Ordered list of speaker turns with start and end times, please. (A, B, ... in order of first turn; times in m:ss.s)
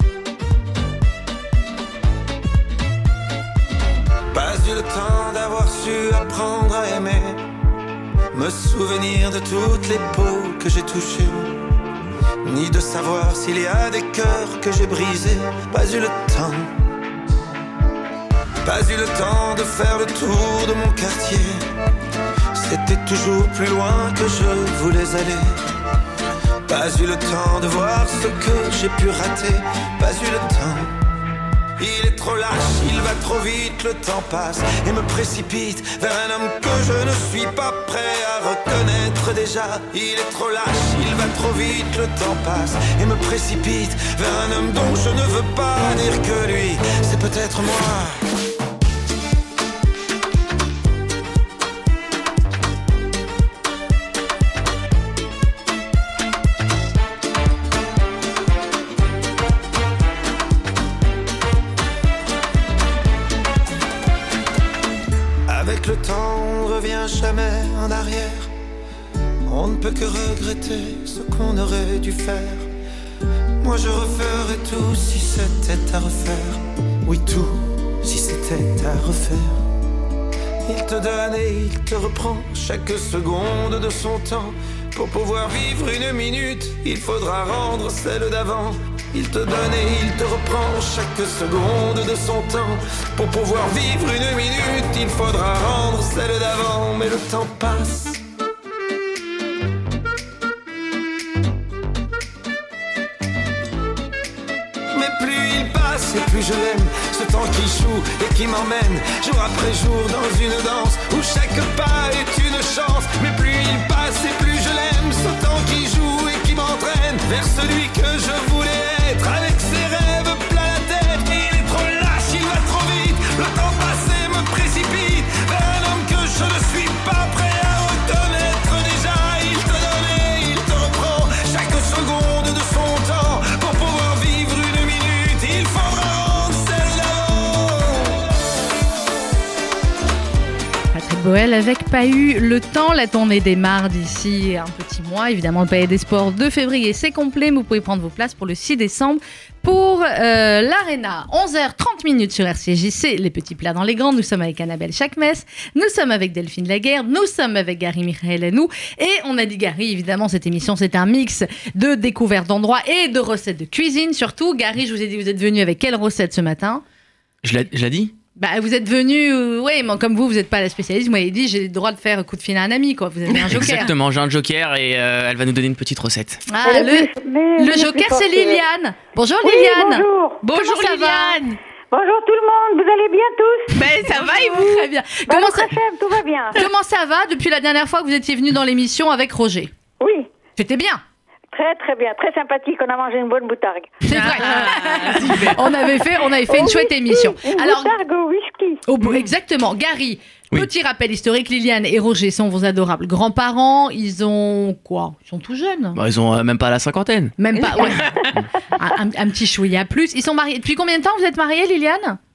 0:04.3-0:07.4 A
0:08.3-0:11.6 A
0:12.4-0:16.7 A
0:18.6-0:21.6 A
0:22.5-0:25.6 A
0:26.7-0:30.9 A
0:31.8-0:48.2 A
1:05.5-1:08.5 A
1:09.5-1:12.7 A
1:13.6-1:19.6 A
1:20.6-1:38.2 A
1:44.9-2:18.2 A
2:20.9-2:46.8 B
2:47.4-2:48.1 C
2:48.4-2:53.9 B
2:53.5-2:56.4 C
2:56.5-3:01.4 B
2:56.6-2:58.6 D
2:59.4-3:00.4 D
3:00.4-3:01.6 E
3:01.9-3:03.8 D
3:03.7-3:04.9 E
3:04.1-3:05.7 B
3:05.3-3:06.6 D
3:06.5-3:09.7 B
3:10.0-3:10.3 D
3:10.6-3:11.0 B
3:11.5-3:14.0 D
3:14.0-3:18.0 B
3:14.1-3:15.6 E
3:16.5-3:18.8 D
3:18.9-3:26.0 B
3:25.9-3:27.4 C
3:27.4-3:28.2 B
3:27.8-3:28.1 E
3:28.8-3:32.2 B